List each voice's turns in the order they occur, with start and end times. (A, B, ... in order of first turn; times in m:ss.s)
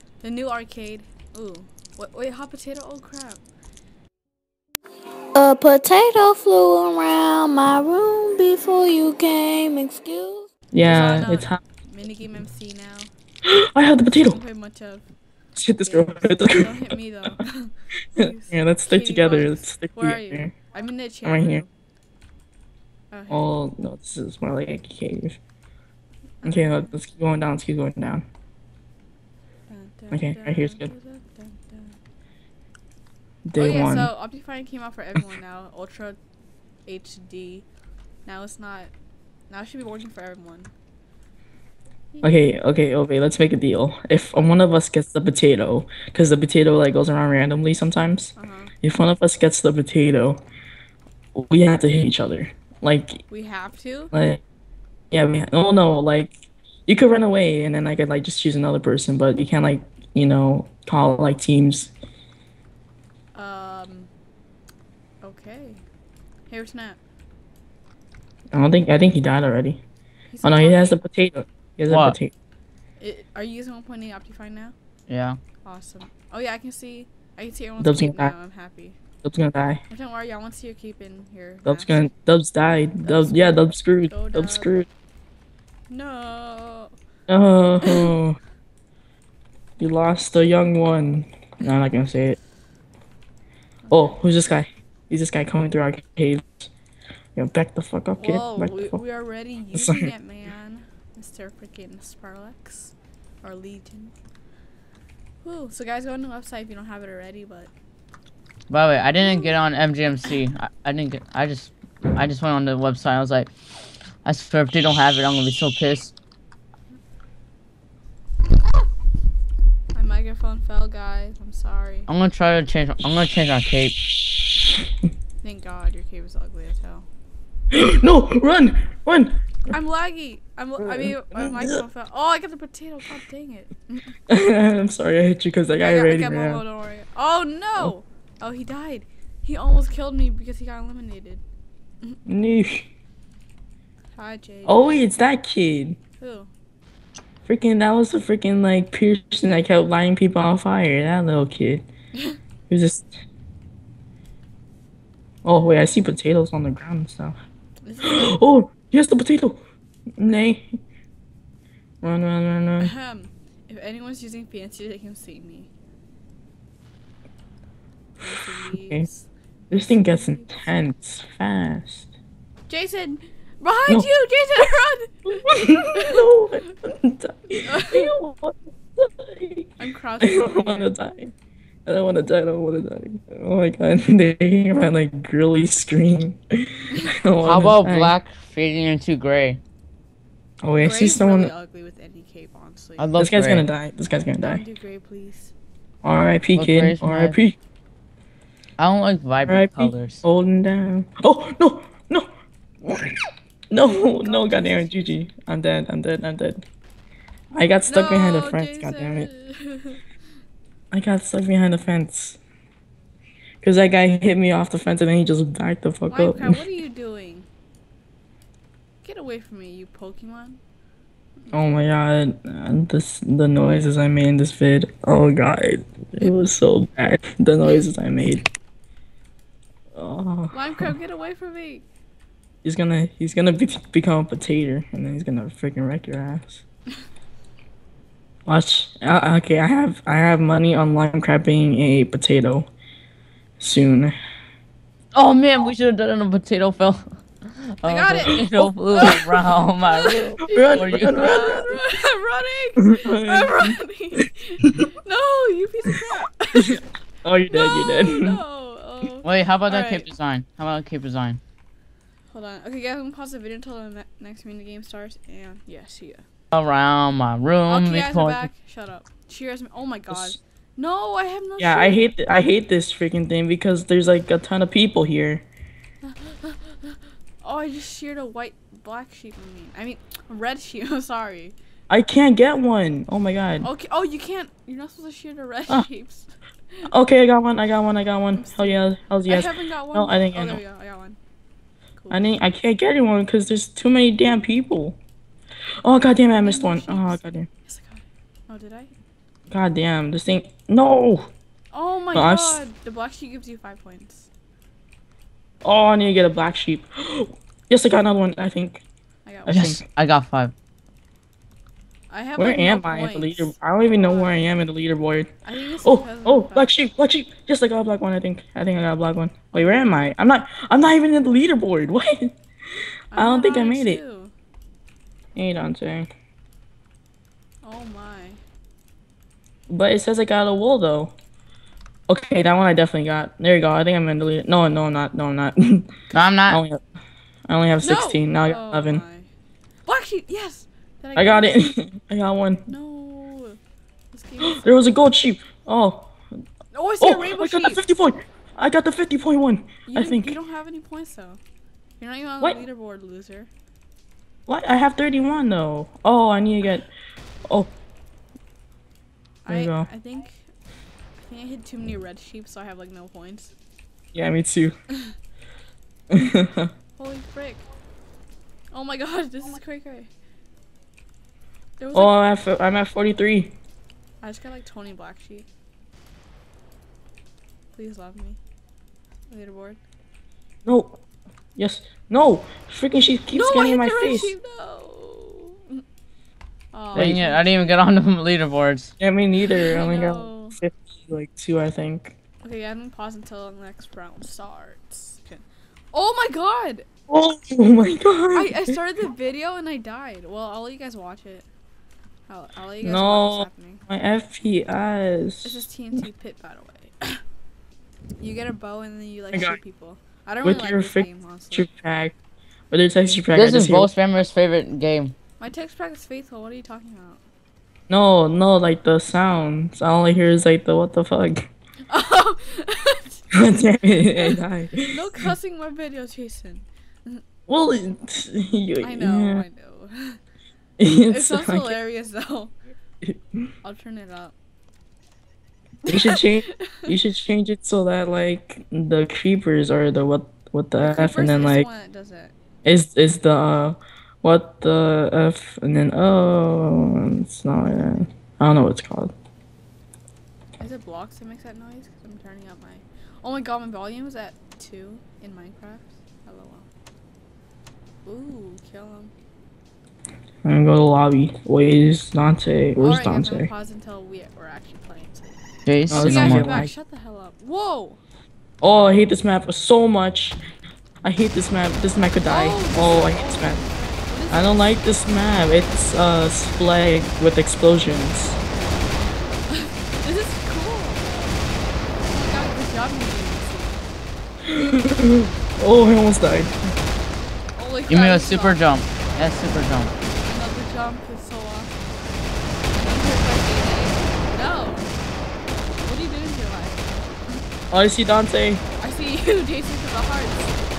0:00.2-0:03.4 A
0:05.4-0:10.4 B
0:10.7-0:11.6 C
0:10.8-0:13.1 A
0:13.4-0:14.4 C
0:14.2-0:15.1 A
0:15.6-0:17.4 C
0:15.8-0:21.7 A
0:18.2-0:20.5 C
0:21.2-0:21.6 C
0:23.1-0:23.5 A
0:23.3-0:25.4 C
0:26.4-0:27.0 A
0:26.4-0:28.2 C
0:29.7-0:32.0 A
0:30.1-0:30.9 C
0:33.4-0:34.1 C
0:33.6-0:36.2 A
0:36.8-0:37.7 A
0:38.2-0:38.9 A
0:39.5-0:40.7 A
0:42.1-0:42.6 A
0:42.2-0:50.4 C
0:48.4-0:48.7 A
0:51.3-0:53.2 C
0:53.3-0:54.1 A
0:54.1-0:54.4 C
0:55.1-0:56.3 C
0:56.9-1:01.9 C
1:03.3-1:04.1 A
1:05.2-1:05.8 A
1:06.5-1:07.0 A
1:08.5-1:09.8 C
1:10.3-1:11.0 A
1:10.4-1:12.3 C
1:11.9-1:12.2 D
1:13.0-1:14.8 A
1:15.1-1:15.4 D
1:15.6-1:19.0 A
1:17.8-1:18.3 C
1:19.2-1:19.8 C
1:19.9-1:22.1 A
1:21.6-1:24.9 C
1:23.0-1:24.8 A
1:25.9-1:26.9 A
1:27.3-1:28.4 C
1:27.8-1:28.1 A
1:29.8-1:32.4 C
1:33.8-1:34.3 A
1:33.9-1:36.7 C
1:37.4-1:39.0 C
1:38.2-1:44.1 A
1:39.7-1:40.1 C
1:45.4-1:47.7 A
1:48.7-1:53.5 D
1:49.2-1:49.6 A
1:54.2-1:56.1 D
1:59.9-2:02.1 A
2:02.1-2:04.0 D
2:05.4-2:07.1 A
2:07.7-2:09.4 C
2:09.7-2:14.2 A
2:10.8-2:11.8 C
2:14.3-2:16.6 C
2:15.8-2:21.4 A
2:22.3-2:22.9 C
2:24.2-2:25.1 A
2:24.7-2:26.0 C
2:26.2-2:26.5 A
2:27.4-2:31.8 C
2:32.7-2:33.1 C
2:35.4-2:37.3 C
2:37.8-2:38.4 A
2:38.0-2:39.6 C
2:40.2-2:40.8 C
2:42.0-2:42.9 C
2:42.8-2:45.7 A
2:48.2-2:49.3 A
2:48.2-2:49.1 C
2:49.7-2:52.1 C
2:49.9-2:50.8 A
2:52.7-2:56.2 A
2:55.5-3:01.3 C
2:57.6-2:58.1 A
2:59.8-3:00.9 A
3:01.8-3:08.2 C
3:07.4-3:09.6 D
3:10.6-3:11.5 C
3:10.8-3:13.1 A
3:13.0-3:13.7 D
3:13.2-3:14.6 C
3:14.4-3:15.5 A
3:16.0-3:17.6 C
3:16.6-3:17.4 D
3:18.8-3:20.2 D
3:19.5-3:22.3 C
3:22.8-3:26.6 C
3:23.8-3:25.2 A
3:27.5-3:29.3 C
3:27.8-3:30.0 A
3:30.9-3:32.4 C
3:33.6-3:36.6 C
3:36.1-3:37.5 A
3:39.0-3:40.6 A
3:41.5-3:48.5 C
3:49.9-3:50.9 C
3:50.5-3:51.8 A
3:52.6-3:56.6 C
3:58.5-4:02.7 C
4:03.6-4:04.2 C
4:05.1-4:11.3 D
4:07.8-4:08.4 A
4:08.2-4:09.2 C
4:08.9-4:09.2 A
4:09.8-4:16.8 A
4:10.4-4:11.8 C
4:12.8-4:14.9 C
4:16.5-4:18.4 C
4:17.5-4:20.0 A
4:19.2-4:21.4 D
4:22.3-4:26.2 A
4:26.5-4:28.5 D
4:27.7-4:32.0 A
4:30.1-4:30.4 C
4:31.6-4:35.4 C
4:36.0-4:41.5 A
4:41.9-4:43.7 C
4:43.6-4:46.9 A
4:46.8-4:50.6 C
4:48.3-4:51.2 A
4:52.0-4:52.3 A
4:52.1-4:55.0 C
4:55.8-4:57.5 C
4:56.4-4:58.9 A
4:59.5-5:01.3 C
5:01.7-5:04.3 A
5:02.1-5:02.6 C
5:05.6-5:08.8 C
5:09.2-5:09.6 A
5:09.4-5:09.8 C
5:09.5-5:10.5 D
5:12.1-5:14.4 A
5:12.4-5:15.3 C
5:15.4-5:16.8 A
5:15.8-5:22.3 C
5:19.5-5:20.1 A
5:23.1-5:24.3 A
5:23.1-5:24.0 C
5:25.3-5:26.1 C
5:27.6-5:28.4 A
5:29.7-5:31.1 C
5:32.1-5:35.9 C
5:36.1-5:36.6 D
5:36.5-5:36.8 C
5:37.5-5:39.0 C
5:37.8-5:39.3 A
5:39.8-5:41.7 A
5:41.2-5:42.7 C
5:42.7-5:43.6 A
5:44.1-5:44.8 A
5:44.4-5:46.2 C
5:46.7-5:47.8 A
5:47.0-5:50.4 C
5:49.8-5:51.4 A
5:52.0-5:53.5 A
5:54.5-5:56.9 C
5:59.4-6:00.5 A
5:59.5-5:59.9 C
6:01.2-6:03.5 A
6:04.1-6:04.8 C
6:06.1-6:06.7 C
6:07.0-6:07.6 A
6:08.7-6:10.1 A
6:11.8-6:12.2 A
6:11.9-6:13.5 C
6:14.2-6:15.5 A
6:17.7-6:18.4 A
6:19.3-6:19.8 A
6:20.6-6:21.0 C
6:21.6-6:24.3 C
6:23.3-6:25.8 A
6:26.7-6:27.6 A
6:26.9-6:27.2 C
6:26.9-6:28.9 D
6:29.0-6:32.2 C
6:29.5-6:30.6 A
6:32.4-6:36.8 A
6:37.1-6:38.7 C
6:38.3-6:41.5 A
6:42.3-6:43.8 A
6:42.8-6:45.6 C
6:45.4-6:47.2 A
6:48.2-6:51.7 A
6:49.3-6:49.6 C
6:50.4-6:52.2 C
6:52.7-6:53.9 C
6:53.3-6:55.1 D
6:55.4-6:57.2 A
6:57.9-7:01.5 C
7:01.9-7:03.3 A
7:03.3-7:05.3 C
7:04.1-7:07.2 A
7:07.5-7:09.4 C
7:08.8-7:10.2 A
7:10.8-7:11.8 C
7:11.1-7:12.5 A
7:13.0-7:13.5 C
7:13.6-7:14.3 A
7:15.9-7:21.7 C
7:15.9-7:16.9 A
7:20.8-7:22.3 A
7:22.6-7:29.1 C
7:30.6-7:36.7 A
7:38.0-7:39.1 A
7:40.4-7:43.5 C
7:42.8-7:48.0 A
7:45.6-7:46.6 D
7:45.9-7:46.7 C
7:48.6-7:50.4 C
7:51.0-7:53.6 C
7:52.2-7:54.8 A
7:54.3-7:58.4 C
7:59.5-8:01.4 A
8:02.1-8:03.8 A
8:04.4-8:06.7 C
8:07.5-8:08.6 A
8:07.9-8:09.9 D
8:10.2-8:11.8 A
8:12.7-8:14.9 A
8:15.5-8:17.4 A
8:17.7-8:18.6 C
8:18.8-8:20.6 A